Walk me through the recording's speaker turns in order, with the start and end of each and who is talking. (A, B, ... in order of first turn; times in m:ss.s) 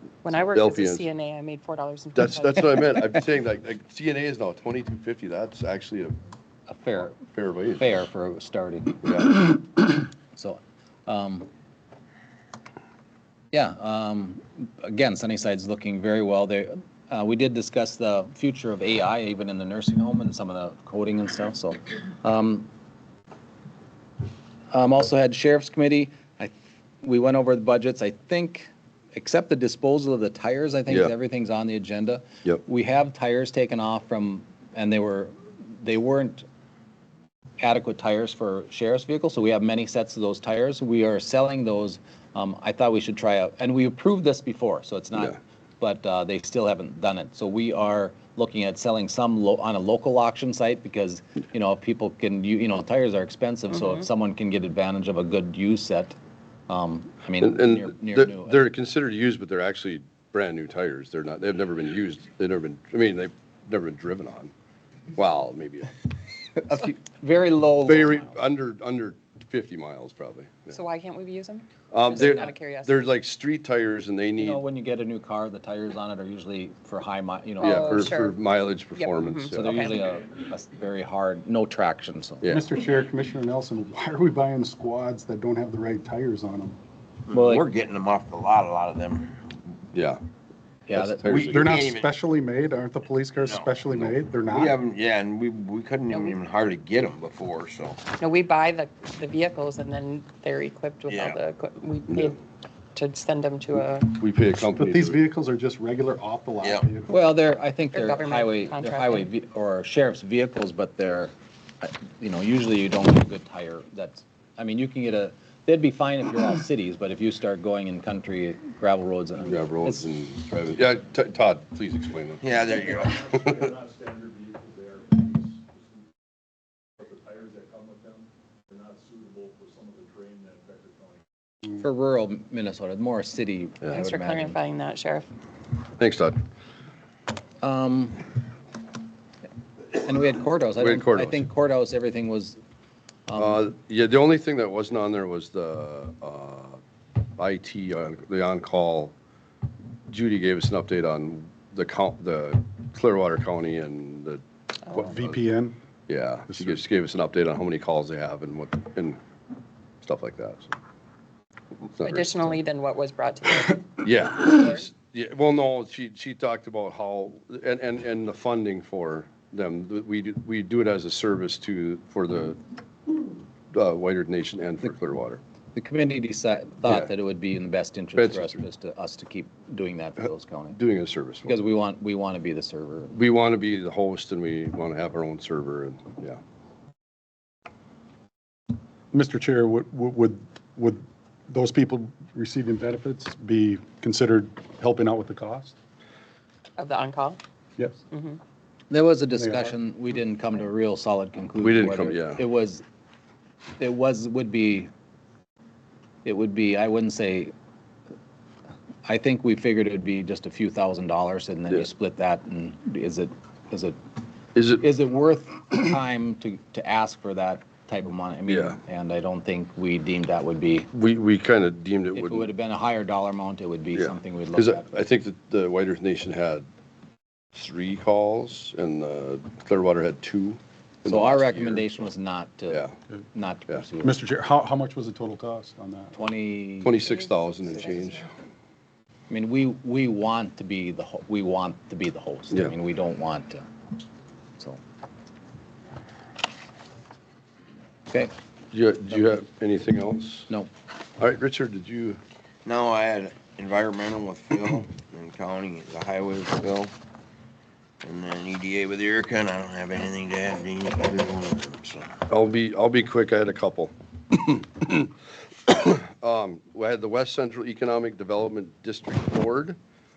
0:00.2-0:03.0 A
0:00.4-0:01.1 B
0:02.2-0:06.2 B
0:06.7-0:07.2 C
0:07.2-0:07.9 B
0:07.8-0:11.5 C
0:09.0-0:09.4 B
0:13.5-0:22.7 C
0:24.7-0:36.4 C
0:37.6-0:56.2 C
0:56.7-0:58.6 C
0:57.4-1:04.5 B
1:05.1-1:05.9 B
1:06.6-1:08.4 C
1:07.8-1:10.8 B
1:10.7-1:13.1 A
1:11.9-1:14.6 B
1:12.2-1:12.5 C
1:14.4-1:18.1 C
1:17.6-1:18.4 A
1:17.6-1:19.8 B
1:19.0-1:20.0 A
1:19.5-1:22.6 C
1:22.4-1:22.7 B
1:22.5-1:26.8 D
1:27.3-1:29.6 E
1:27.3-1:27.6 C
1:29.9-1:30.2 B
1:30.9-1:31.4 C
1:30.9-1:31.8 B
1:31.2-1:32.2 E
1:31.3-1:34.8 D
1:33.4-1:38.1 E
1:36.1-1:36.4 A
1:38.2-1:42.4 A
1:41.1-1:41.4 E
1:43.0-1:44.2 A
1:44.1-1:45.2 B
1:44.8-1:47.2 D
1:46.6-1:46.9 E
1:47.1-2:00.1 C
1:47.9-1:49.3 A
1:59.4-2:02.5 B
2:02.4-2:03.3 E
2:02.7-2:05.6 F
2:07.0-2:11.2 F
2:11.7-2:14.6 C
2:13.9-2:15.3 A
2:16.0-2:16.4 B
2:17.6-2:18.2 C
2:20.0-2:22.6 C
2:20.8-2:21.5 B
2:23.3-2:23.7 C
2:23.4-2:26.8 B
2:27.4-2:29.2 B
2:30.1-2:35.4 B
2:35.0-2:35.8 D
2:36.1-2:39.2 B
2:36.5-2:36.8 D
2:40.0-2:40.8 B
2:42.0-2:42.3 B
2:42.0-2:44.9 A
2:44.0-2:52.6 B
2:53.7-2:55.4 B
2:55.8-3:00.8 C
2:56.8-2:57.1 B
2:58.2-2:58.6 B
3:00.7-3:01.6 B
3:01.4-3:03.2 C
3:03.1-3:06.4 B
3:09.1-3:15.8 D
3:16.8-3:17.4 A
3:18.1-3:18.4 A
3:18.9-3:22.8 C
3:19.4-3:19.7 D
3:21.6-3:22.4 B
3:23.8-3:24.9 C
3:26.2-3:27.5 C
3:29.1-3:34.0 C
3:34.6-3:34.8 B
3:34.8-3:40.9 C
3:38.5-3:38.8 B
3:40.9-3:42.5 B
3:42.1-3:45.1 C
3:44.0-3:46.7 B
3:47.6-3:51.9 B
3:51.0-3:54.2 C
3:52.7-3:52.9 B
3:54.0-3:56.2 D
3:56.2-3:57.0 C
3:56.8-3:58.3 B
3:59.3-4:03.6 C
4:08.7-4:10.5 B
4:11.2-4:12.2 B
4:12.6-4:16.9 E
4:18.0-4:22.2 E
4:22.3-4:25.1 B
4:25.7-4:29.8 B